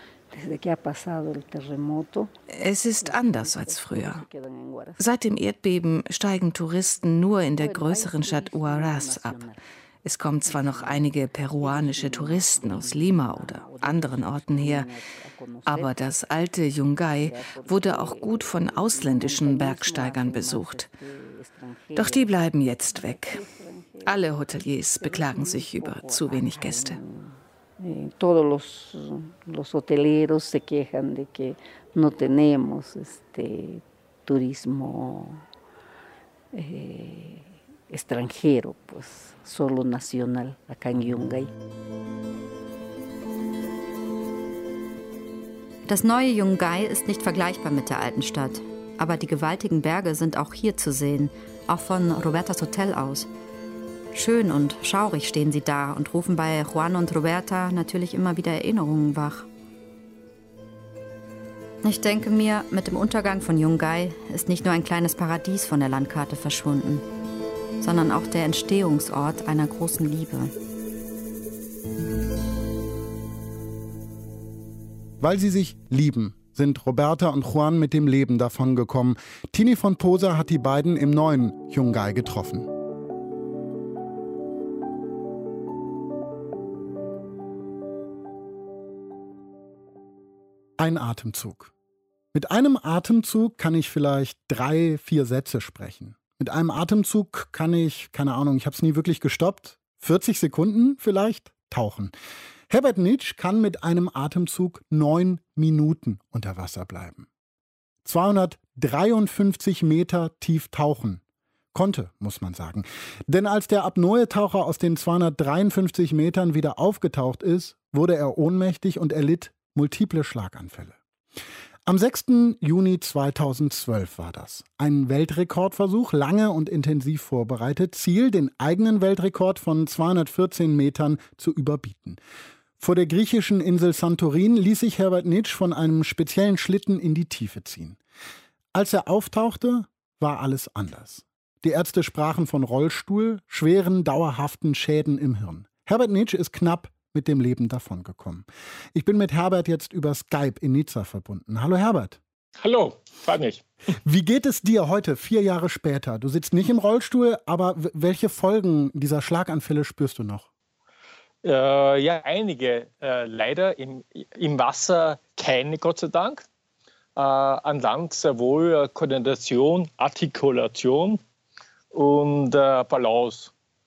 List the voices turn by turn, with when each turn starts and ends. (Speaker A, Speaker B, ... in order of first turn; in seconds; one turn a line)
Speaker A: 0.3-2.3
Speaker B: 2.5-4.2
Speaker A: 3.0-5.0
Speaker B: 5.0-9.4
Speaker A: 7.6-9.6
Speaker B: 10.0-14.9
Speaker A: 10.4-15.9
Speaker B: 15.7-20.9
Speaker A: 17.2-22.3
Speaker B: 21.9-23.4
Speaker A: 22.9-24.2
Speaker B: 24.1-27.0
Speaker A: 25.0-35.4
Speaker A: 36.5-41.5
Speaker C: 45.9-53.3
Speaker C: 54.1-59.5
Speaker C: 61.8-67.0
Speaker C: 67.8-70.5
Speaker D: 75.2-82.7
Speaker D: 90.8-91.7
Speaker D: 92.3-102.1
Speaker D: 102.7-107.3
Speaker D: 108.0-111.2
Speaker D: 111.7-121.0
Speaker D: 121.8-132.2
Speaker D: 132.8-138.0
Speaker D: 138.7-152.2
Speaker E: 152.6-153.6
Speaker D: 154.0-160.5
Speaker E: 161.4-166.4
Speaker E: 167.2-171.2
Speaker E: 171.9-173.5